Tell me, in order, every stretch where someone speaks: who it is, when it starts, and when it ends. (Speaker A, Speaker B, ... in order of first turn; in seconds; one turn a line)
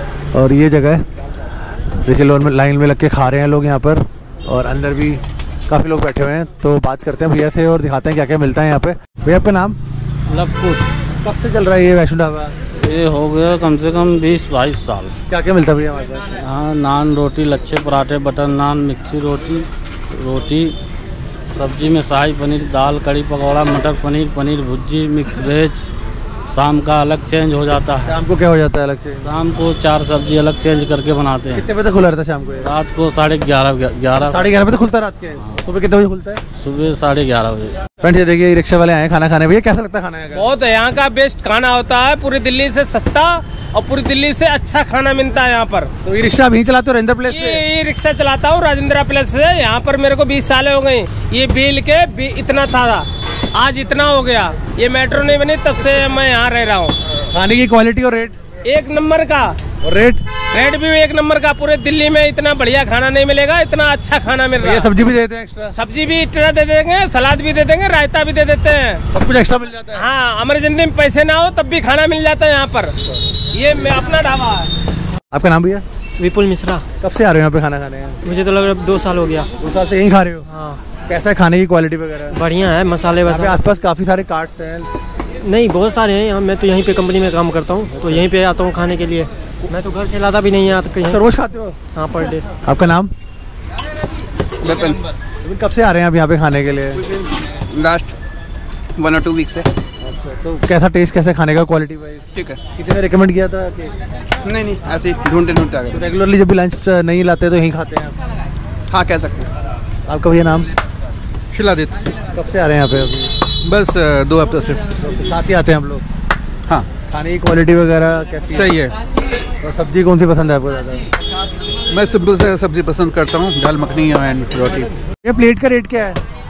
Speaker A: 0.3-1.0
Speaker A: 2.0-9.8
Speaker B: 10.3-10.9
Speaker A: 11.2-12.6
Speaker B: 12.8-15.2
Speaker A: 15.3-16.4
Speaker B: 16.4-20.8
Speaker B: 21.6-25.9
Speaker B: 26.5-28.1
Speaker A: 28.1-29.4
Speaker B: 29.2-31.7
Speaker A: 31.5-32.7
Speaker B: 32.6-34.5
Speaker A: 34.2-36.4
Speaker B: 36.6-37.8
Speaker A: 38.0-40.5
Speaker C: 40.4-45.9
Speaker A: 46.0-47.6
Speaker C: 47.3-56.9
Speaker A: 57.3-58.4
Speaker C: 58.7-59.5
Speaker A: 59.8-60.2
Speaker C: 60.5-64.9
Speaker A: 64.6-65.8
Speaker C: 65.8-69.0
Speaker A: 69.1-70.0
Speaker C: 70.0-72.9
Speaker C: 73.5-74.7
Speaker A: 75.3-75.8
Speaker D: 76.2-76.9
Speaker A: 77.0-78.2
Speaker D: 78.2-79.5
Speaker A: 79.6-80.5
Speaker D: 80.5-80.8
Speaker A: 81.1-82.4
Speaker D: 82.3-83.6
Speaker A: 83.3-84.9
Speaker D: 85.4-91.2
Speaker A: 87.9-88.3
Speaker A: 91.0-91.8
Speaker D: 92.0-92.5
Speaker A: 92.7-93.1
Speaker E: 94.6-95.0
Speaker A: 95.4-97.0
Speaker E: 97.0-98.1
Speaker E: 99.0-99.7
Speaker A: 100.0-102.2
Speaker A: 102.8-103.9
Speaker E: 104.4-106.1
Speaker A: 105.9-108.2
Speaker E: 108.9-109.5
Speaker A: 110.1-110.7
Speaker E: 111.5-112.0
Speaker A: 112.3-113.3
Speaker E: 113.7-114.8
Speaker A: 115.0-116.0
Speaker A: 117.1-118.7
Speaker E: 118.5-119.0
Speaker A: 119.6-121.1
Speaker E: 121.9-124.9
Speaker A: 125.2-126.2